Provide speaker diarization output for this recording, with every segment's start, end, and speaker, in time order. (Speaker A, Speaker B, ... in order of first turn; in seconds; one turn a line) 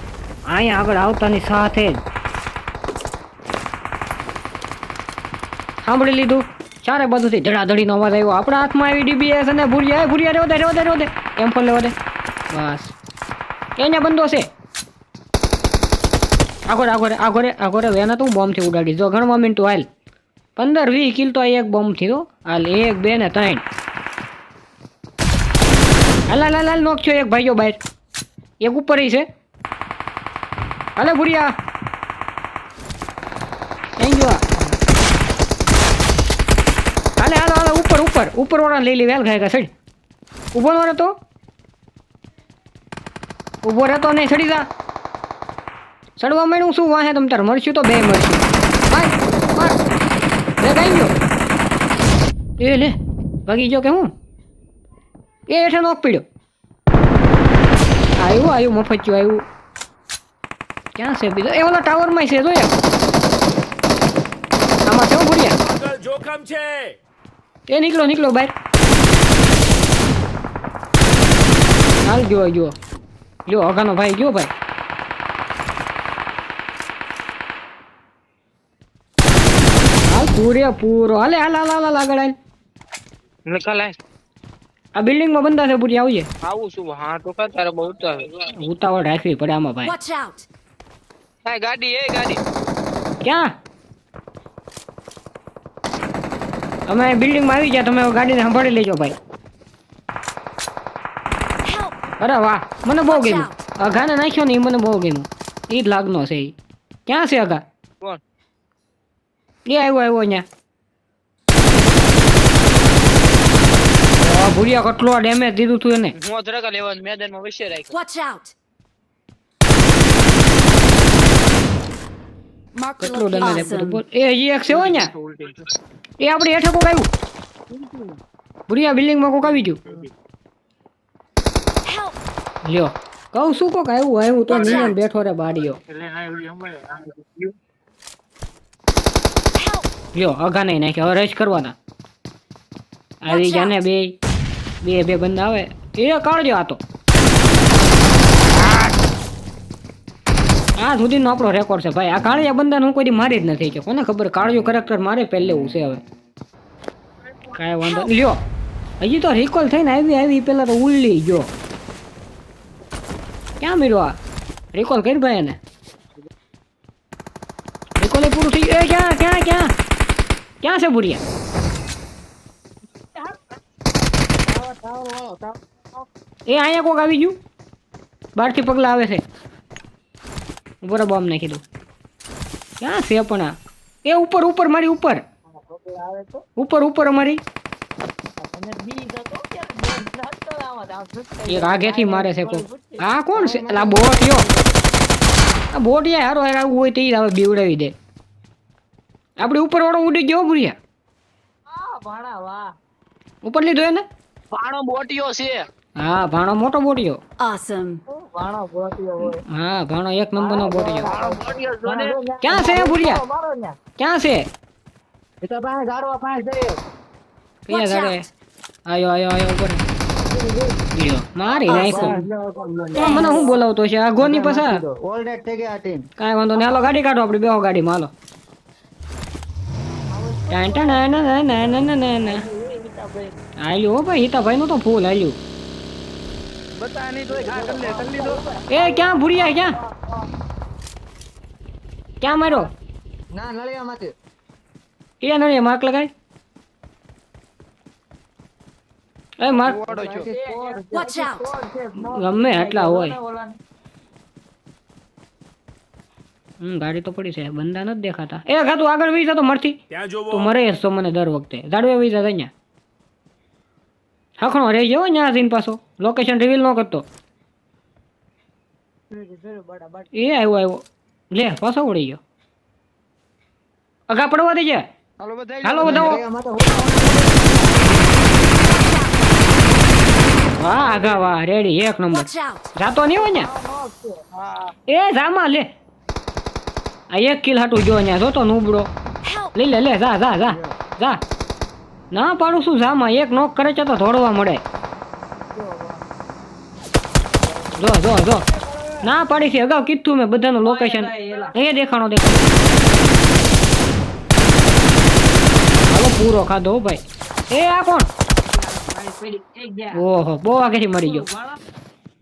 Speaker A: 0.5-2.0
Speaker A: 5.8-11.9
Speaker A: 12.5-13.0
Speaker A: 13.8-14.5
Speaker A: 16.7-19.9
Speaker A: 20.6-23.6
Speaker A: 26.3-27.8
Speaker A: 28.6-29.3
Speaker A: 31.0-31.5
Speaker A: 34.0-34.6
Speaker A: 37.2-39.7
Speaker A: 40.5-41.1
Speaker A: 43.6-44.7
Speaker A: 46.2-49.8
Speaker A: 50.6-51.1
Speaker A: 52.6-53.0
Speaker A: 53.5-54.1
Speaker A: 55.5-56.2
Speaker A: 58.2-59.5
Speaker A: 61.0-62.8
Speaker A: 64.9-65.6
Speaker B: 65.6-67.0
Speaker A: 67.7-68.5
Speaker A: 72.0-72.7
Speaker A: 73.5-74.5
Speaker A: 80.1-82.3
Speaker C: 83.5-84.0
Speaker A: 85.0-86.3
Speaker C: 86.5-88.5
Speaker A: 88.5-90.0
Speaker D: 89.8-90.5
Speaker C: 91.5-92.4
Speaker A: 93.2-93.5
Speaker A: 96.9-99.2
Speaker D: 101.6-102.0
Speaker A: 102.2-106.5
Speaker D: 103.1-103.6
Speaker A: 107.1-107.6
Speaker A: 109.7-110.5
Speaker A: 114.2-116.2
Speaker C: 116.2-117.9
Speaker D: 117.9-118.5
Speaker D: 122.8-124.0
Speaker A: 123.0-125.1
Speaker A: 126.2-127.1
Speaker A: 128.7-129.8
Speaker D: 131.8-132.2
Speaker A: 132.7-135.8
Speaker D: 134.5-134.9
Speaker C: 136.1-137.0
Speaker D: 139.6-139.9
Speaker A: 140.2-141.8
Speaker A: 143.2-144.2
Speaker D: 143.3-143.7
Speaker A: 144.8-146.8
Speaker A: 150.8-156.0
Speaker A: 157.5-158.4
Speaker A: 159.0-161.5
Speaker A: 163.6-164.2
Speaker A: 164.7-165.6
Speaker A: 168.0-169.7
Speaker A: 170.6-171.2
Speaker E: 174.5-175.6
Speaker A: 176.5-177.4
Speaker A: 178.4-179.2
Speaker A: 180.8-181.6
Speaker A: 182.8-185.2
Speaker C: 185.9-186.3
Speaker A: 186.6-187.4
Speaker C: 188.6-192.9
Speaker E: 189.5-190.7
Speaker A: 191.5-194.5
Speaker E: 193.3-194.7
Speaker A: 195.7-197.9
Speaker A: 199.4-200.8
Speaker C: 202.1-202.6
Speaker A: 203.4-204.1
Speaker C: 204.6-205.6
Speaker A: 206.0-207.2
Speaker D: 207.4-208.0
Speaker C: 208.4-209.1
Speaker A: 209.2-211.2
Speaker E: 210.4-213.7
Speaker C: 211.1-212.2
Speaker A: 212.4-213.2
Speaker A: 214.0-214.5
Speaker E: 215.4-216.8
Speaker A: 217.7-218.3
Speaker D: 217.7-218.2
Speaker A: 218.9-219.8
Speaker A: 221.0-222.2
Speaker E: 221.7-223.6
Speaker D: 221.7-222.1
Speaker A: 222.9-224.8
Speaker E: 224.2-226.1
Speaker A: 226.2-228.1
Speaker E: 230.2-230.6
Speaker A: 230.5-232.5
Speaker A: 233.6-235.4
Speaker C: 236.8-238.5
Speaker E: 237.3-239.2
Speaker A: 238.7-239.8
Speaker A: 242.2-242.7
Speaker E: 243.3-244.1
Speaker A: 245.2-246.1
Speaker A: 249.4-249.9
Speaker E: 249.7-251.5
Speaker C: 249.9-251.7
Speaker D: 250.9-251.4
Speaker A: 252.0-253.2
Speaker A: 256.6-259.8
Speaker B: 259.9-260.5
Speaker A: 260.3-262.5
Speaker A: 264.4-267.1
Speaker E: 269.2-269.7
Speaker A: 270.1-272.2
Speaker A: 274.1-274.9
Speaker E: 275.3-278.1
Speaker A: 275.6-276.2
Speaker D: 278.7-279.2
Speaker A: 280.6-283.5
Speaker D: 282.1-282.7
Speaker E: 283.4-284.2
Speaker A: 284.9-285.7
Speaker A: 287.1-288.9
Speaker D: 289.2-289.5
Speaker A: 289.5-291.2
Speaker A: 292.1-294.6
Speaker A: 297.7-298.5
Speaker A: 299.0-302.6
Speaker C: 300.8-301.5
Speaker A: 305.9-308.1
Speaker C: 308.6-309.9
Speaker A: 309.9-311.3